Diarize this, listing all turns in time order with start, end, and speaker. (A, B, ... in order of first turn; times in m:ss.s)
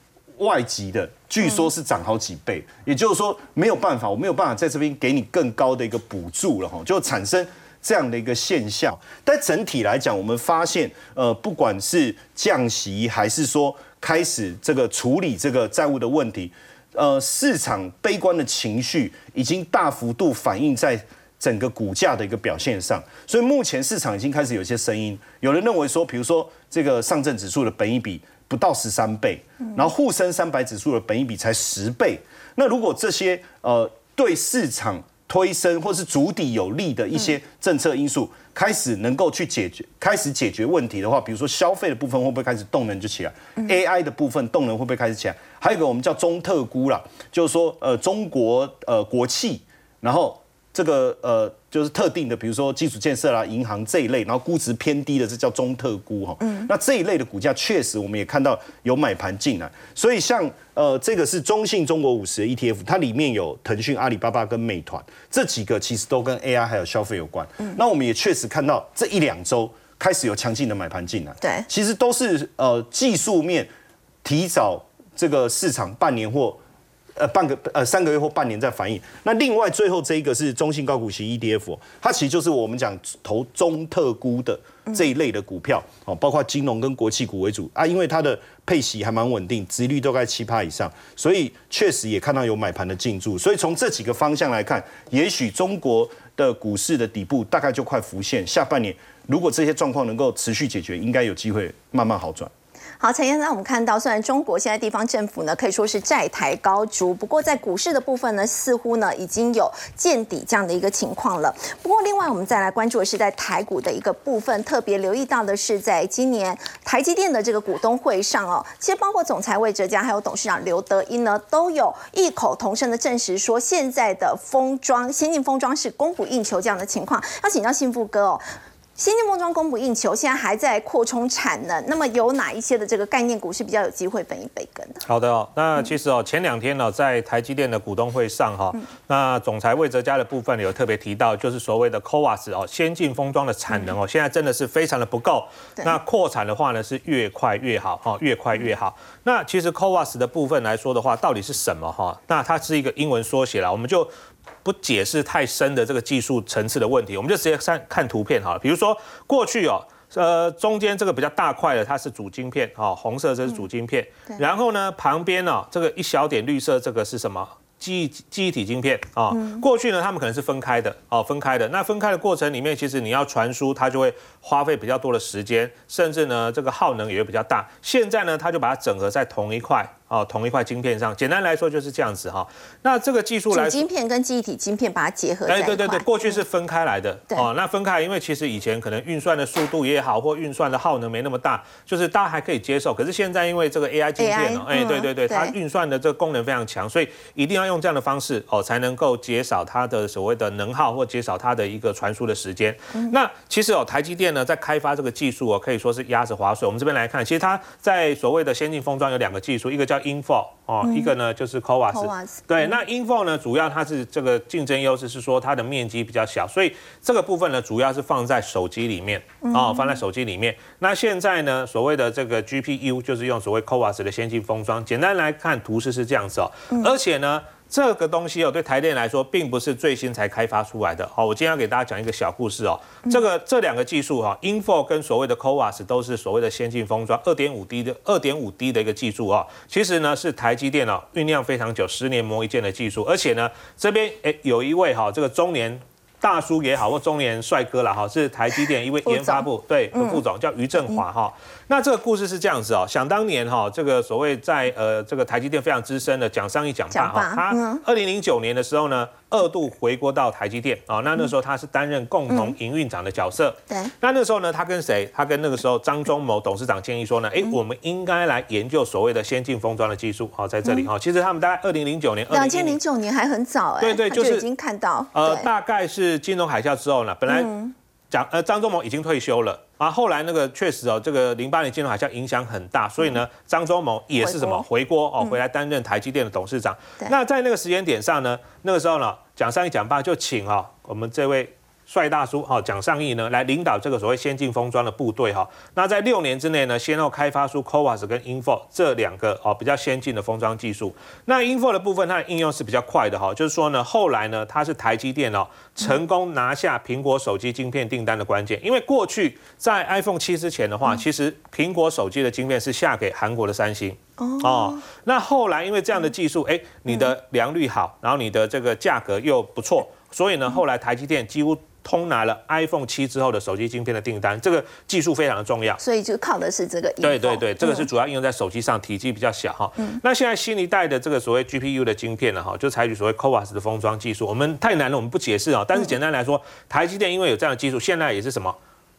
0:00.4-1:13.7 A
1:11.4-1:11.7 B
1:14.2-1:16.6 A
1:17.2-1:42.5 A
1:43.0-2:08.4 B
2:09.0-2:15.0 B
2:15.0-2:34.1 C
2:34.6-3:03.8 C
2:49.3-2:49.6 B
3:03.5-3:06.4 B
3:05.5-4:32.8 C
3:14.2-3:15.5 B
3:30.8-3:31.1 B
3:31.9-3:32.7 B
3:39.4-3:40.0 B
4:09.0-4:10.2 B
4:16.9-4:17.8 B
4:32.3-4:35.5 B
4:33.8-4:34.4 C
4:35.1-4:37.5 C
4:37.3-4:37.7 B
4:38.1-5:25.8 C
4:44.2-4:44.6 B
5:14.2-5:14.8 B
5:25.8-5:27.9 B
5:27.0-5:38.6 C